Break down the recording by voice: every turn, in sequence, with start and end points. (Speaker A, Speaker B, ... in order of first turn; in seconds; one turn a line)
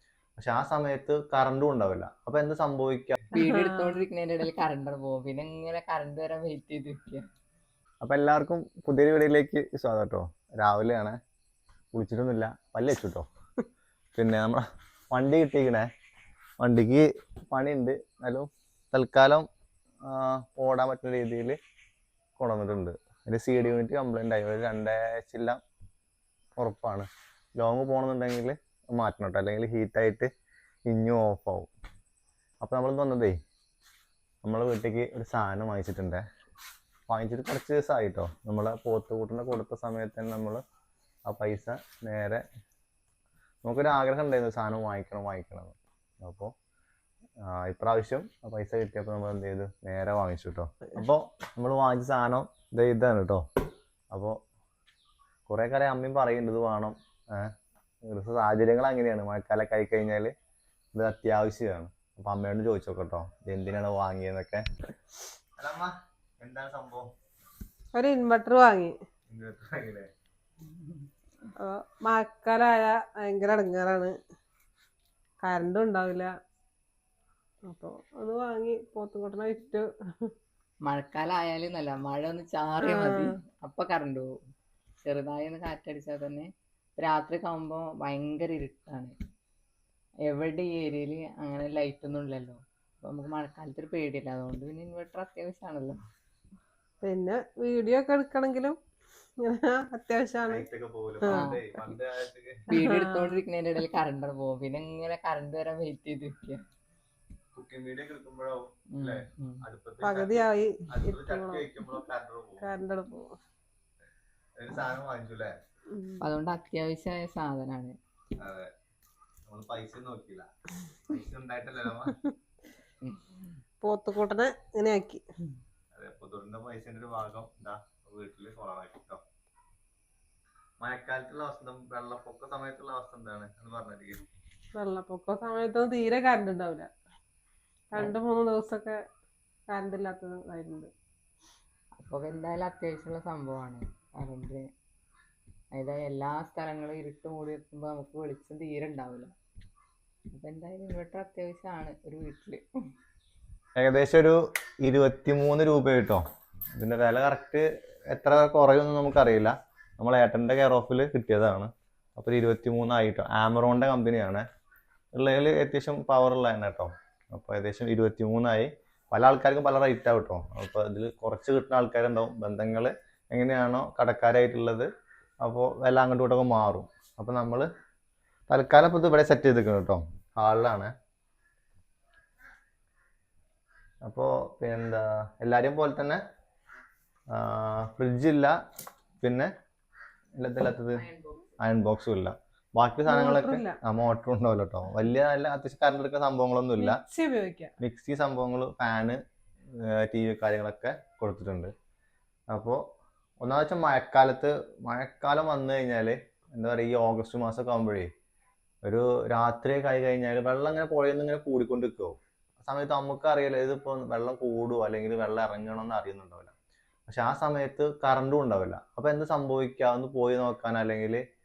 Speaker A: 0.4-3.2
Speaker B: 3.4-4.0
Speaker C: 3.4-7.2
Speaker A: 8.0-11.2
Speaker A: 11.9-13.3
Speaker A: 14.2-15.9
Speaker A: 16.6-19.5
Speaker A: 20.1-21.6
Speaker A: 22.4-25.6
Speaker A: 26.6-30.3
Speaker A: 30.9-31.7
Speaker A: 32.6-33.4
Speaker A: 34.4-36.2
Speaker A: 37.1-40.6
Speaker A: 41.3-42.4
Speaker A: 43.6-46.5
Speaker A: 47.4-53.4
Speaker A: 54.1-54.4
Speaker A: 55.5-57.5
Speaker A: 58.0-60.3
Speaker A: 60.9-64.7
Speaker A: 65.6-67.1
Speaker B: 67.9-69.0
Speaker A: 69.3-70.1
Speaker B: 71.6-74.1
Speaker B: 75.4-76.3
Speaker B: 77.7-80.3
Speaker C: 80.8-84.3
Speaker B: 82.8-83.3
Speaker C: 85.0-89.2
Speaker C: 90.3-96.0
Speaker B: 97.0-98.8
Speaker B: 99.4-100.7
Speaker A: 100.5-102.6
Speaker B: 101.2-101.5
Speaker C: 101.3-101.6
Speaker B: 102.7-103.4
Speaker C: 102.7-106.6
Speaker A: 107.5-112.7
Speaker C: 109.0-109.6
Speaker B: 110.0-111.7
Speaker B: 112.6-113.3
Speaker A: 114.6-115.5
Speaker B: 115.9-116.2
Speaker C: 116.2-118.0
Speaker A: 118.4-118.7
Speaker A: 119.5-120.5
Speaker A: 121.1-122.2
Speaker C: 123.0-123.6
Speaker B: 123.8-125.2
Speaker A: 125.9-129.2
Speaker A: 130.8-134.2
Speaker B: 134.8-136.9
Speaker B: 137.9-139.0
Speaker B: 139.7-140.9
Speaker C: 142.0-144.7
Speaker C: 145.7-149.3
Speaker C: 150.3-152.6
Speaker A: 153.8-156.2
Speaker A: 156.8-164.4
Speaker A: 165.2-174.9
Speaker A: 175.4-177.7
Speaker A: 178.5-180.9
Speaker A: 184.1-186.2
Speaker A: 187.3-188.6
Speaker A: 189.2-189.5
Speaker A: 190.4-191.0
Speaker C: 190.9-191.6
Speaker A: 191.6-197.0
Speaker B: 193.1-193.8
Speaker B: 196.8-197.8
Speaker A: 197.8-199.2
Speaker A: 199.7-201.7
Speaker A: 202.5-202.8
Speaker A: 203.4-208.1
Speaker A: 208.8-216.5
Speaker A: 217.1-221.2